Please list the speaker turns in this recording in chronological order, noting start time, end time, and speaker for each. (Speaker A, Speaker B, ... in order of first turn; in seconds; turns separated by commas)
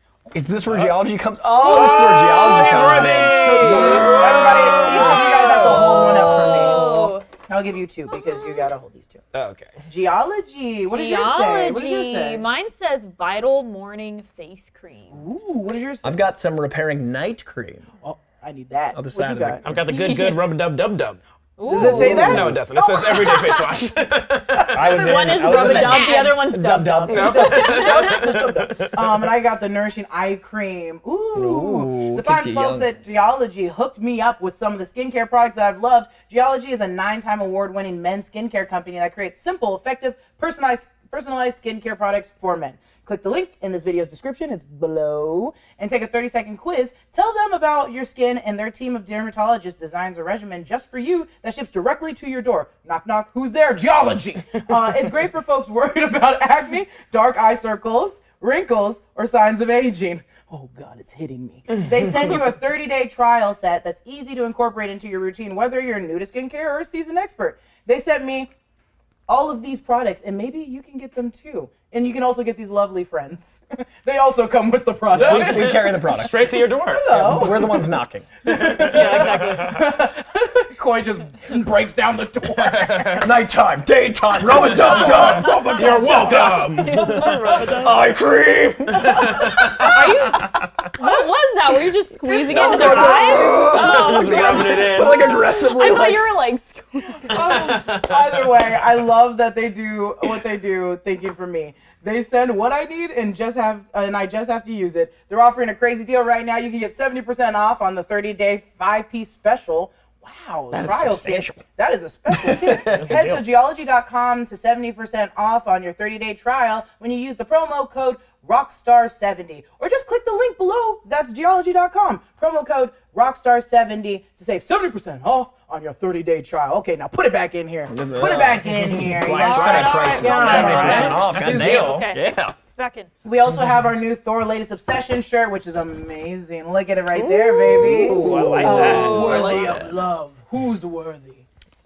Speaker A: 0.3-7.1, Speaker B: 0.7-1.0, Speaker B: 1.6-6.4, Speaker C: 1.7-2.4, Speaker D: 1.8-9.2, Speaker C: 6.4-7.3, Speaker C: 8.1-8.7, Speaker B: 9.3-9.8, Speaker D: 9.8-12.4, Speaker C: 10.9-15.2, Speaker D: 15.1-16.2, Speaker A: 16.0-17.9, Speaker D: 18.0-19.6, Speaker A: 18.9-19.6, Speaker B: 19.6-26.3, Speaker C: 19.9-20.4, Speaker C: 21.6-22.5, Speaker D: 21.7-23.6, Speaker A: 21.7-22.6, Speaker C: 23.2-23.6, Speaker A: 24.7-27.9, Speaker C: 24.8-28.4, Speaker B: 27.1-29.2, Speaker D: 27.1-68.5, Speaker A: 31.4-32.9, Speaker D: 69.3-76.3, Speaker A: 75.1-78.3, Speaker B: 75.1-77.4, Speaker D: 76.9-83.3, Speaker B: 78.6-79.7, Speaker C: 78.8-79.9, Speaker B: 82.6-83.2, Speaker A: 83.2-85.6, Speaker D: 84.4-87.9, Speaker B: 84.5-87.8, Speaker C: 84.8-88.0, Speaker A: 87.6-90.5, Speaker D: 89.0-89.9, Speaker B: 89.1-89.9, Speaker C: 89.8-97.8, Speaker A: 92.4-96.2, Speaker D: 92.4-93.8, Speaker B: 93.0-95.4, Speaker D: 97.2-131.3, Speaker B: 97.4-98.8, Speaker A: 110.7-111.6, Speaker A: 112.3-113.2, Speaker B: 112.9-113.4, Speaker A: 127.9-132.6, Speaker C: 129.3-133.1, Speaker B: 130.0-132.1, Speaker D: 133.2-141.5, Speaker A: 137.2-139.9, Speaker B: 137.8-139.5, Speaker C: 138.6-139.7